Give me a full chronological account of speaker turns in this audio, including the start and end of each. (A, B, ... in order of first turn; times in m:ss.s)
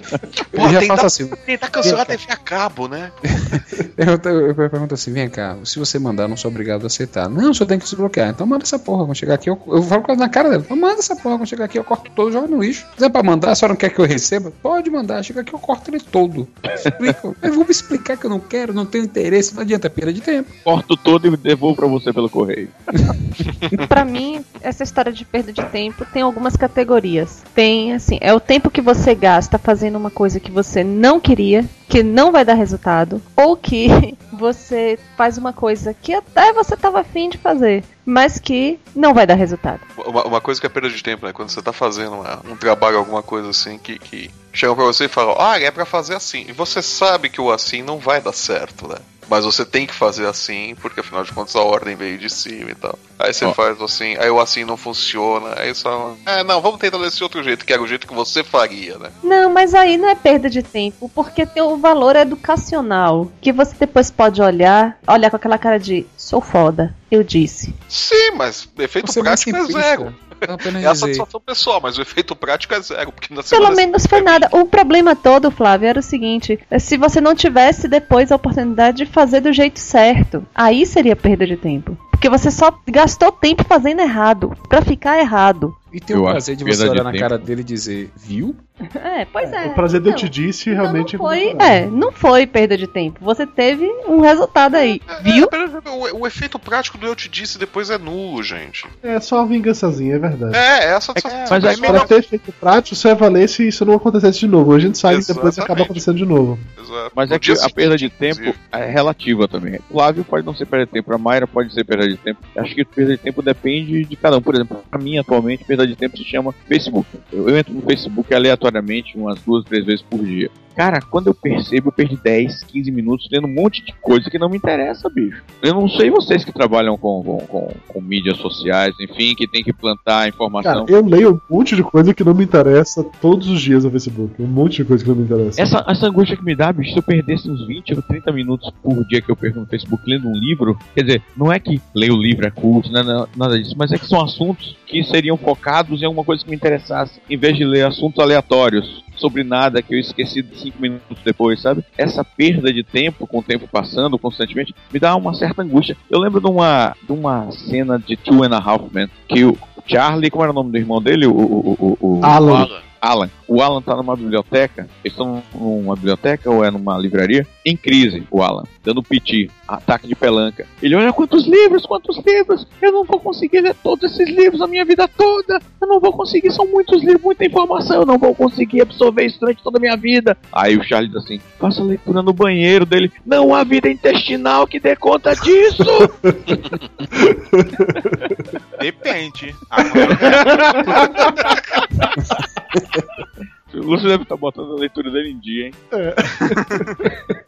0:00.5-0:03.6 A
0:00.5-0:02.2 B
0:03.4-0:20.5 B
0:20.6-0:23.2 C
0:23.9-0:39.8 D
0:40.0-0:59.1 A
0:59.2-1:07.8 D
1:07.9-1:14.5 A
1:09.0-1:11.2 B
1:13.5-1:25.7 D
1:25.9-1:28.6 B
1:26.1-1:27.4 C
1:29.0-1:35.5 D
1:29.4-1:32.0 E
1:35.0-1:38.9 A
1:39.0-1:40.6 E
1:40.5-1:42.1 A
1:41.2-1:42.1 F
1:41.5-1:42.0 C
1:41.8-1:46.6 E
1:45.1-1:46.0 A
1:46.8-1:48.6 A
1:47.1-2:10.9 C
2:10.6-2:15.7 E
2:15.6-2:42.4 C
2:42.2-2:42.7 E
2:42.4-2:42.9 A
2:43.0-3:06.1 C
3:06.2-3:06.6 E
3:07.1-3:08.2 E
3:08.8-3:11.6 F
3:10.0-3:11.4 E
3:13.7-3:15.8 C
3:15.9-3:16.9 E